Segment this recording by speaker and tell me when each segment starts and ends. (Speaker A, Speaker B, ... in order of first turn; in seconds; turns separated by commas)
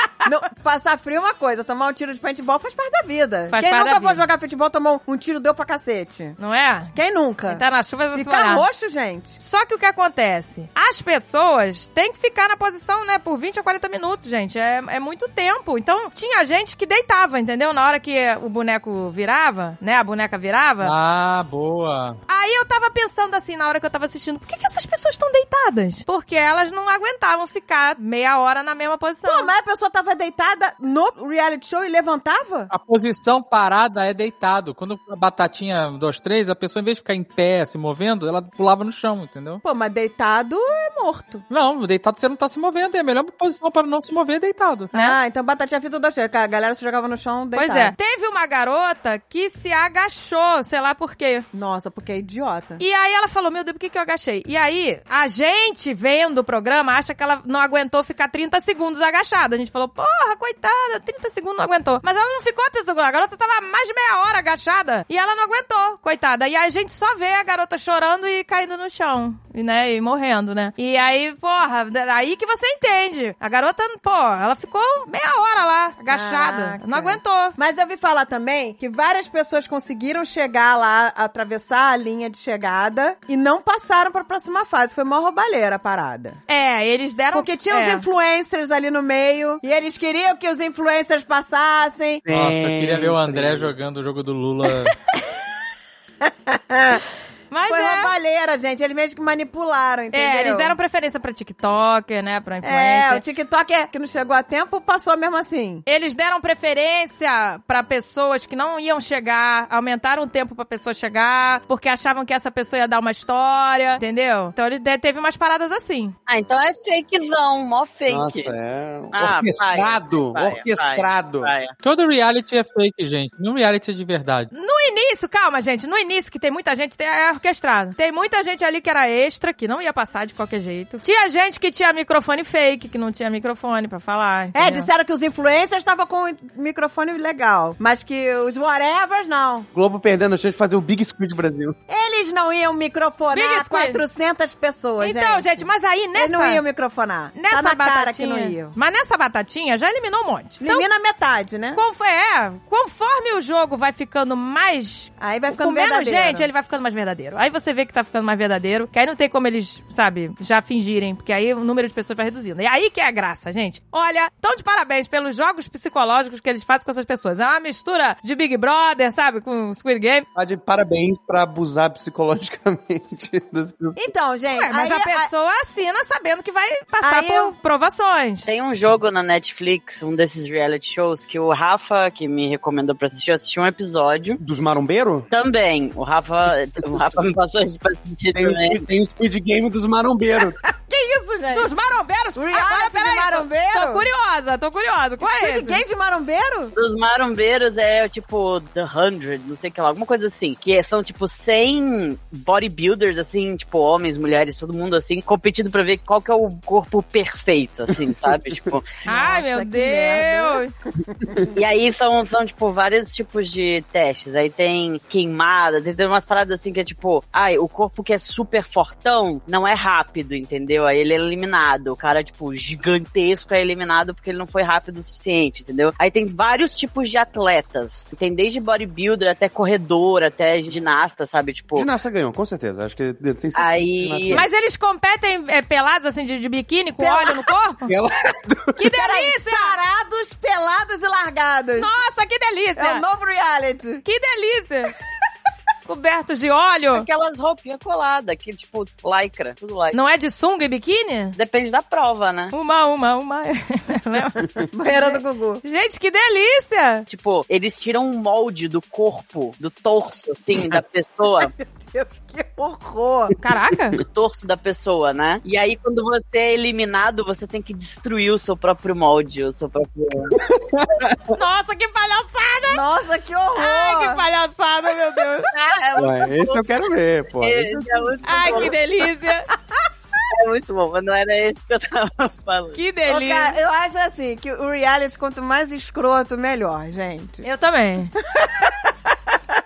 Speaker A: 0.2-6.4, Speaker B: 3.5-4.2, Speaker B: 6.4-7.0, Speaker A: 7.0-9.4, Speaker B: 7.5-8.7, Speaker B: 9.4-20.9, Speaker C: 20.8-22.2, Speaker B: 22.3-29.5, Speaker A: 29.2-32.7, Speaker C: 32.7-39.6, Speaker A: 39.6-41.4, Speaker C: 41.5-44.9, Speaker A: 44.9-48.0, Speaker B: 47.5-51.5, Speaker A: 51.5-52.8, Speaker B: 52.8-77.6, Speaker A: 76.1-86.4, Speaker B: 86.5-88.1, Speaker A: 87.3-92.2, Speaker D: 92.3-93.7, Speaker C: 92.3-95.0, Speaker A: 96.2-97.0, Speaker B: 97.5-98.1, Speaker A: 97.7-100.8, Speaker B: 100.1-103.2, Speaker A: 102.6-105.8, Speaker B: 105.9-116.2, Speaker E: 116.3-118.5, Speaker D: 118.1-121.5, Speaker E: 119.1-121.7, Speaker C: 121.8-124.5, Speaker B: 124.5-134.9, Speaker A: 134.6-139.7, Speaker D: 139.7-141.8, Speaker A: 141.9-148.8, Speaker B: 143.3-144.0, Speaker B: 145.0-146.6, Speaker B: 147.3-150.9, Speaker A: 150.6-151.8, Speaker B: 151.8-170.3, Speaker A: 155.2-156.5, Speaker D: 170.3-174.1, Speaker A: 174.0-175.3, Speaker B: 174.5-178.5, Speaker A: 177.0-177.5, Speaker E: 178.5-184.4, Speaker D: 184.4-185.3, Speaker E: 185.3-188.9, Speaker D: 188.3-190.6, Speaker A: 190.6-191.7, Speaker B: 191.5-195.8, Speaker A: 192.3-194.1, Speaker A: 195.2-196.7, Speaker E: 196.8-208.9, Speaker A: 209.1-210.6, Speaker B: 209.1-210.7, Speaker A: 211.2-211.5, Speaker E: 211.5-231.9, Speaker D: 231.7-234.5, Speaker E: 233.6-234.4, Speaker B: 234.3-237.9, Speaker A: 237.0-237.6, Speaker D: 237.8-238.8, Speaker B: 238.8-239.8, Speaker A: 238.9-241.9, Speaker B: 241.8-243.0, Speaker A: 242.8-244.1, Speaker B: 244.1-244.9, Speaker B: 245.9-247.1, Speaker E: 246.9-250.0, Speaker B: 249.9-251.4, Speaker E: 251.4-252.5, Speaker B: 252.5-257.1, Speaker A: 254.6-255.6, Speaker E: 257.1-261.5, Speaker A: 261.6-263.4, Speaker B: 263.4-264.0, Speaker E: 264.1-270.4, Speaker D: 270.3-271.2, Speaker B: 271.3-272.8, Speaker A: 272.7-274.2, Speaker B: 273.6-275.5, Speaker E: 275.5-276.6, Speaker D: 275.9-278.1, Speaker E: 277.4-278.8, Speaker B: 278.2-279.5, Speaker E: 280.3-282.8, Speaker B: 282.8-283.6, Speaker A: 283.1-287.5, Speaker B: 287.4-288.1, Speaker A: 288.2-289.4